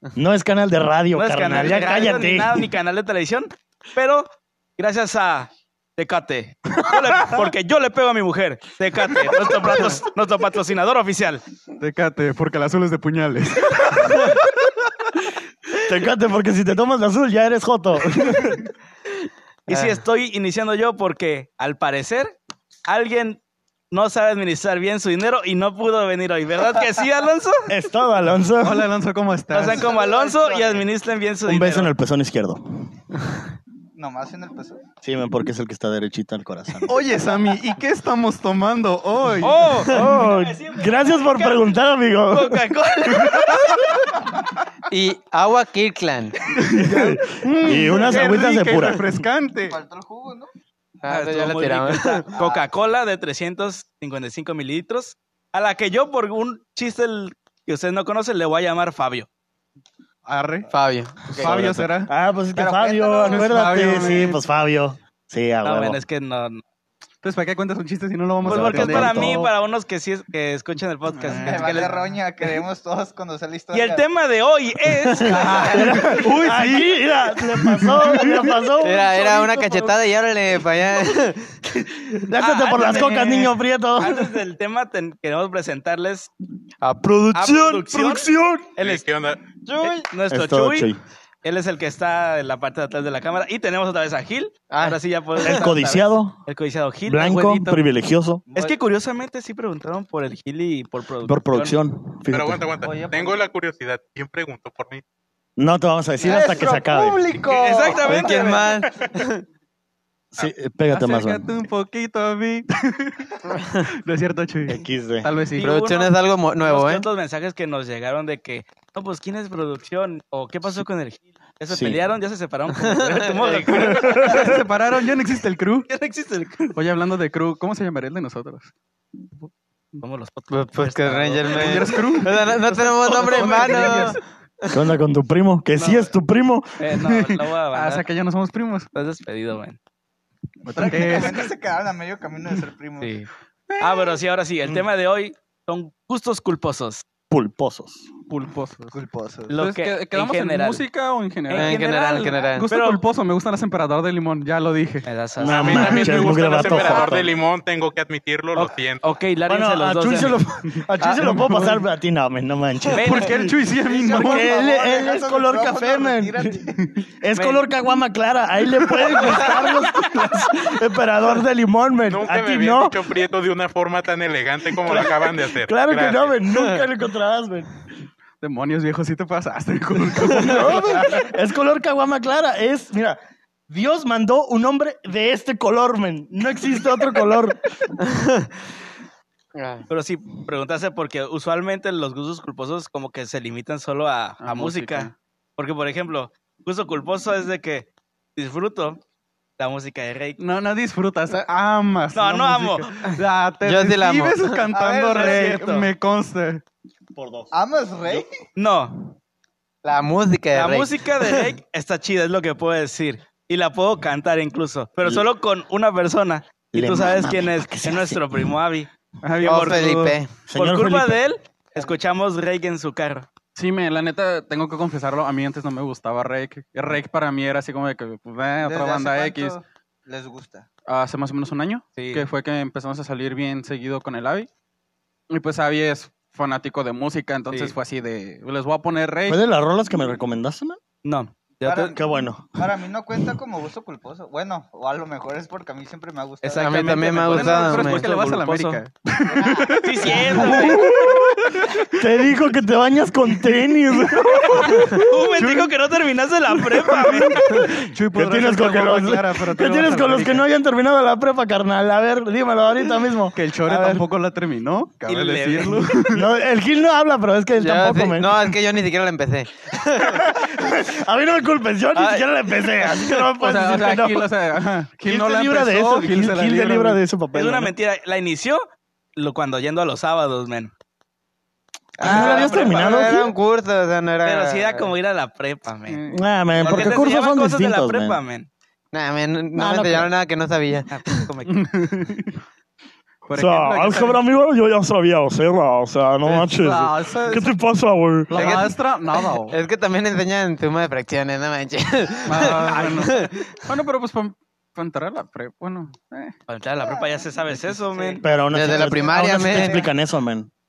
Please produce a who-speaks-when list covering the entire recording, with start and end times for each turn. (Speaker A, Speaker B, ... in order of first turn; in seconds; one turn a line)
Speaker A: 0.2-2.7
Speaker B: 1.1-11.4
Speaker C: 11.8-14.4
Speaker A: 15.8-18.6
Speaker D: 19.7-20.0
Speaker B: 19.7-22.3
Speaker B: 22.9-27.7
Speaker A: 27.7-28.9
Speaker C: 28.6-29.9
Speaker B: 29.5-31.9
Speaker E: 29.6-30.9
Speaker A: 31.5-33.0
Speaker E: 34.0-34.8
Speaker A: 35.0-37.0
Speaker C: 36.9-39.9
Speaker B: 39.4-41.6
Speaker A: 39.9-42.6
Speaker B: 42.3-43.8
Speaker D: 44.9-46.4
Speaker C: 46.6-49.8
Speaker A: 46.7-49.0
Speaker E: 46.8-47.2
Speaker E: 49.7-50.5
Speaker D: 51.0-52.3
Speaker B: 51.1-59.3
Speaker E: 52.3-52.7
Speaker C: 60.3-60.7
Speaker D: 60.7-61.5
Speaker C: 61.2-62.1
Speaker A: 61.3-66.0
Speaker E: 62.5-64.3
Speaker C: 63.3-64.4
Speaker B: 65.6-66.6
Speaker C: 67.2-69.2
Speaker A: 68.4-69.5
Speaker B: 68.4-72.1
Speaker C: 71.1-71.9
Speaker E: 71.3-74.0
Speaker B: 73.7-75.8
Speaker A: 75.1-80.0
Speaker E: 75.2-76.2
Speaker C: 75.3-78.5
Speaker D: 78.8-81.6
Speaker A: 81.8-84.4
Speaker B: 82.4-86.3
Speaker D: 82.9-83.2
Speaker A: 87.0-88.7
Speaker B: 87.3-89.0
Speaker F: 88.8-89.4
Speaker B: 89.8-90.9
Speaker A: 90.3-91.0
Speaker B: 91.4-97.3
Speaker D: 94.7-95.7
Speaker A: 95.4-96.4
Speaker A: 97.1-98.4
Speaker C: 97.2-97.8
Speaker E: 98.5-98.8
Speaker B: 98.5-101.8
Speaker A: 101.3-102.7
Speaker F: 102.3-105.0
Speaker E: 102.8-103.5
Speaker A: 105.6-107.2
Speaker E: 106.2-108.6
Speaker B: 107.5-108.7
Speaker D: 108.0-109.4
Speaker A: 110.3-111.5
Speaker C: 110.9-115.7
Speaker A: 114.7-115.3
Speaker B: 115.6-124.6
Speaker D: 115.6-117.1
Speaker A: 121.7-122.0
Speaker D: 122.8-123.6
Speaker C: 123.8-125.9
Speaker A: 124.1-124.5
Speaker B: 125.9-126.7
Speaker C: 126.7-128.7
Speaker B: 130.0-132.2
Speaker D: 130.5-134.8
Speaker C: 131.5-134.2
Speaker A: 134.7-136.8
Speaker B: 136.8-138.0
Speaker C: 136.9-138.9
Speaker B: 138.9-139.8
Speaker A: 140.7-140.9
Speaker E: 140.7-143.1
Speaker C: 140.8-141.5
Speaker B: 143.0-147.0
Speaker C: 143.7-144.1
Speaker A: 147.3-148.1
Speaker C: 148.3-149.0
Speaker E: 148.9-149.5
Speaker B: 149.5-150.8
Speaker C: 149.6-151.8
Speaker B: 151.5-153.0
Speaker D: 151.6-152.7
Speaker C: 152.4-155.1
Speaker B: 155.0-156.3
Speaker A: 155.4-157.3
Speaker F: 155.4-159.0
Speaker C: 155.7-156.3
Speaker B: 158.6-160.4
Speaker A: 159.5-163.4
Speaker C: 161.1-161.8
Speaker C: 162.9-164.6
Speaker B: 163.0-163.3
Speaker E: 163.8-166.9
Speaker A: 164.1-173.1
Speaker B: 167.3-167.7
Speaker F: 172.1-176.4
Speaker A: 174.8-177.7
Speaker C: 178.4-181.3
Speaker A: 180.2-187.6
Speaker D: 188.1-188.4
Speaker D: 189.6-189.8
Speaker B: 189.9-199.0
Speaker C: 194.4-195.1
Speaker B: 199.6-200.4
Speaker C: 200.4-206.6
Speaker B: 202.1-203.0
Speaker D: 203.6-204.7
Speaker E: 204.7-205.9
Speaker B: 205.1-205.9
Speaker A: 207.2-207.5
Speaker E: 207.5-208.3
Speaker B: 208.6-209.0
Speaker D: 209.8-211.5
Speaker B: 210.5-223.3
Speaker A: 216.7-218.5
Speaker C: 219.2-220.1
Speaker D: 219.4-220.3
Speaker A: 220.5-221.2
Speaker C: 223.6-229.6
Speaker E: 228.6-230.7
Speaker C: 230.9-234.5
Speaker B: 232.0-232.3
Speaker C: 235.3-239.4
Speaker A: 239.3-240.8
Speaker B: 241.0-242.0
Speaker E: 241.7-242.0
Speaker A: 241.9-242.6
Speaker E: 242.6-246.9
Speaker B: 246.4-248.8
Speaker D: 246.6-248.2
Speaker C: 246.8-252.0
Speaker E: 249.3-249.7
Speaker B: 249.7-250.9
Speaker A: 250.4-251.2
Speaker A: 251.9-254.8
Speaker C: 253.9-255.7
Speaker B: 254.7-257.6
Speaker C: 256.8-260.4
Speaker A: 258.1-264.0
Speaker C: 263.3-266.3
Speaker B: 265.1-265.9
Speaker A: 266.1-268.6
Speaker D: 267.6-270.3
Speaker A: 270.0-274.3
Speaker D: 271.9-273.2
Speaker C: 273.4-277.0
Speaker A: 275.1-277.7
Speaker B: 277.3-280.7
Speaker D: 282.0-284.9
Speaker A: 282.0-283.3
Speaker B: 282.0-283.1
Speaker B: 284.2-286.0
Speaker C: 285.9-286.2
Speaker A: 286.1-288.2
Speaker B: 286.6-288.5
Speaker D: 288.9-291.3
Speaker A: 289.6-290.1
Speaker B: 290.9-291.5
Speaker C: 291.5-292.4
Speaker C: 293.3-294.2
Speaker A: 293.4-298.6
Speaker C: 296.2-297.5
Speaker C: 298.3-299.6
Speaker D: 298.3-298.7
Speaker D: 299.4-303.6
Speaker C: 302.3-306.3
Speaker B: 302.4-303.1
Speaker B: 306.5-308.3
Speaker E: 306.8-307.2
Speaker E: 307.9-309.9
Speaker A: 308.2-310.5
Speaker D: 308.5-309.9